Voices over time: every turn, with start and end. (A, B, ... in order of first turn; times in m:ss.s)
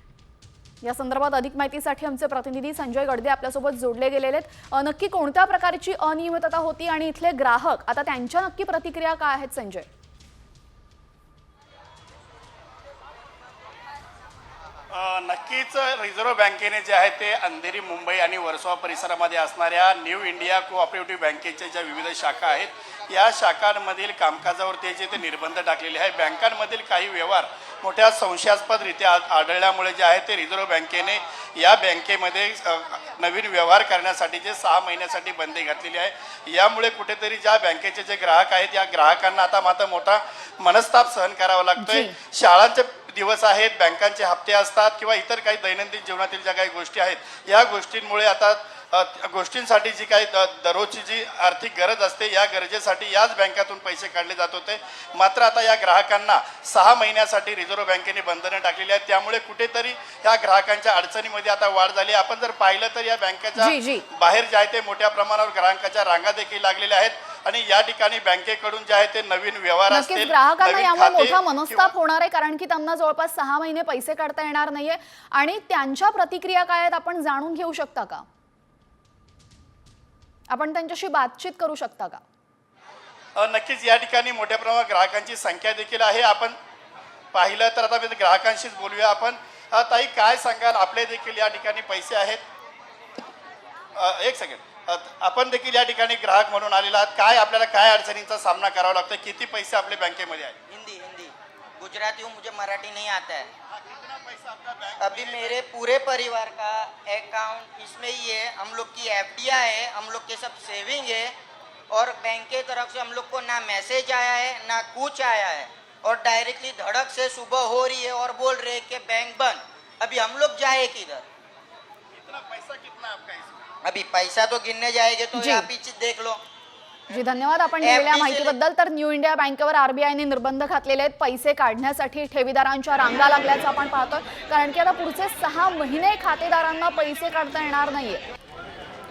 0:00.8-0:09.9 A
0:14.9-1:11.9 B
0:41.8-0:42.2 A
1:03.6-1:04.0 A
1:09.9-1:18.2 A
1:20.5-1:22.2 A
1:23.4-1:26.6 B
1:27.3-1:32.4 B
1:33.9-1:40.5 B
1:40.7-1:43.5 C
1:43.7-1:45.6 B
1:45.0-1:51.3 C
1:51.9-2:01.2 C
2:02.1-2:03.6 B
2:03.8-2:06.4 C
2:05.3-2:05.7 A
2:07.1-2:18.2 A
2:07.8-2:08.6 C